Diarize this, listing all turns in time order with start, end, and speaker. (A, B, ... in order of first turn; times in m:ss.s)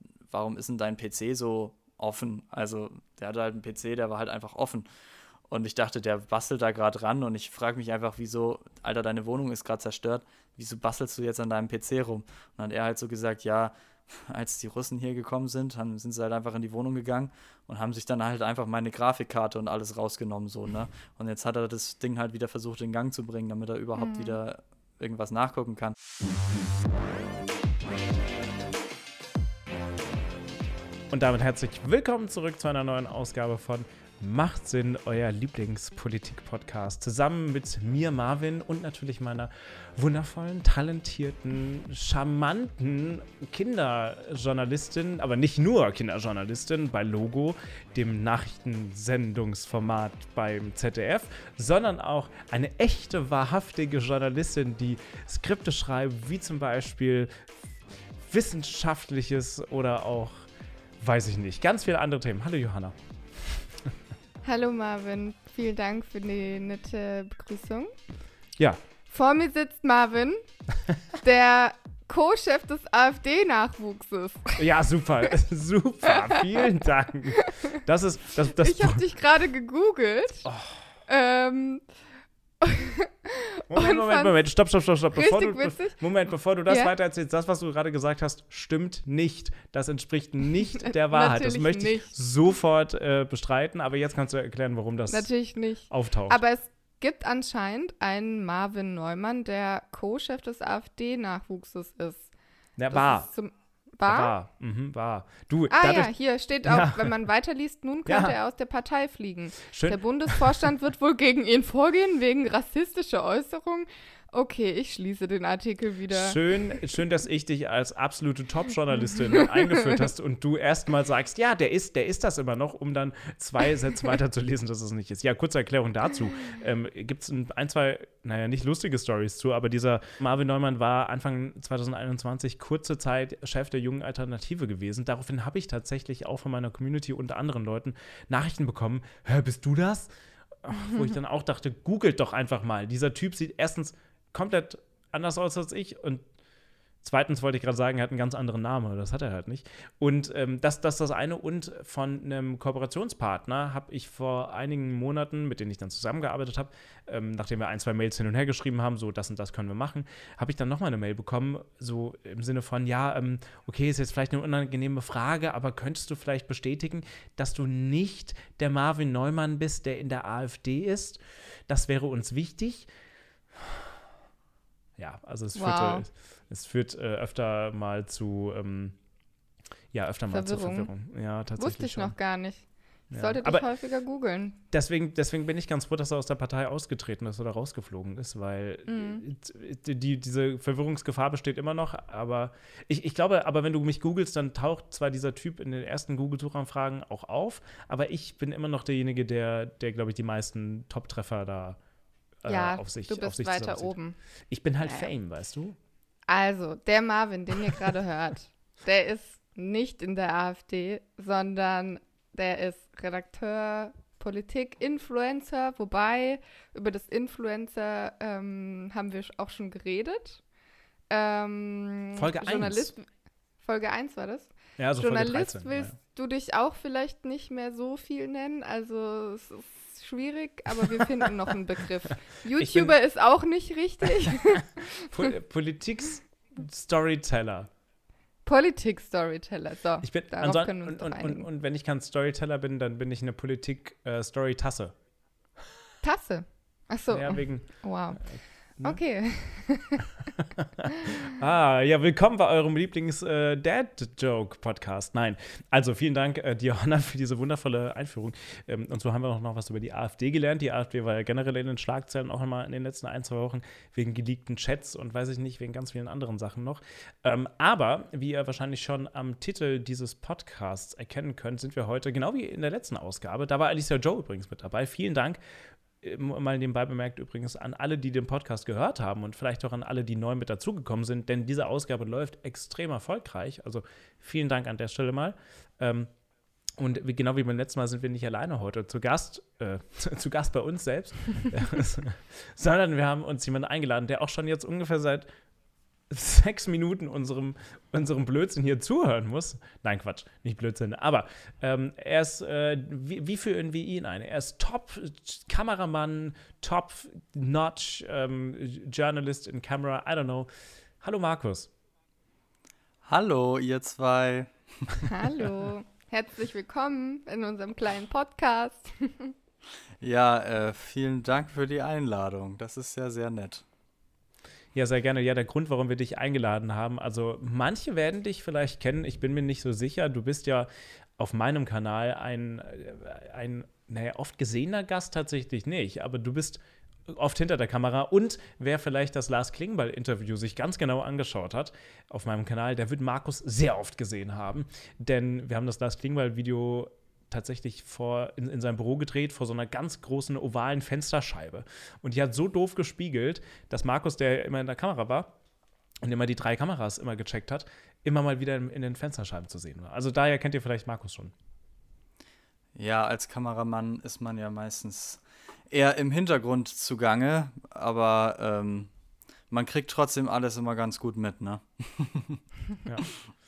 0:00.3-0:04.9 A
0:05.5-0:26.0 A
0:24.0-0:24.4 B
0:31.1-0:57.5 C
0:58.2-1:00.4 C
1:01.0-1:03.7 C
1:04.4-1:07.9 B
1:08.6-1:08.8 C
1:09.1-1:10.4 B
1:11.2-1:14.7 B
1:14.6-1:19.0 C
1:16.1-1:16.7 B
1:17.3-1:17.8 B
1:18.4-1:20.5 B
1:20.4-1:20.8 C
1:21.1-1:21.8 B
1:22.6-1:24.4 B
1:23.7-1:35.3 C
1:25.1-1:26.0 B
1:30.7-1:32.1 B
1:35.1-1:42.3 B
1:35.9-1:36.4 C
1:42.8-1:43.3 C
1:42.9-1:44.3 B
1:44.0-1:46.1 C
1:45.7-1:56.8 B
1:46.6-1:47.2 C
1:48.1-1:48.4 C
1:49.7-1:50.5 C
1:56.1-2:20.1 C
2:20.6-2:26.2 C
2:27.0-2:52.9 C
2:53.6-2:53.9 C
2:55.0-2:59.0 C
2:55.6-2:56.1 B
2:59.9-3:02.2 C
3:00.3-3:00.9 B
3:01.6-3:04.6 B
3:03.1-3:03.6 C
3:04.7-3:21.8 C
3:08.9-3:09.2 B
3:22.4-3:23.9 C
3:22.5-3:24.2 B
3:24.5-3:25.8 C
3:24.8-3:25.1 B
3:26.3-3:40.4 B
3:41.1-3:43.1 B
3:42.2-3:42.9 C
3:43.6-3:55.3 B
3:44.8-3:45.9 C
3:52.6-3:52.9 C
3:55.0-3:57.7 C
3:58.5-4:01.5 B
4:00.0-4:05.0 C
4:06.0-4:10.1 B
4:07.1-4:09.0 C
4:10.4-4:35.4 C
4:36.0-4:46.1 C
4:46.8-4:55.3 C
4:56.1-5:10.5 C
5:11.0-5:11.7 C
5:13.1-5:15.1 A
5:15.1-5:19.3 B
5:20.0-5:23.6 A
5:24.8-5:55.4 C
5:56.0-6:01.3 C
6:02.8-6:08.9 A
6:09.5-6:12.4 A
6:12.8-6:13.1 C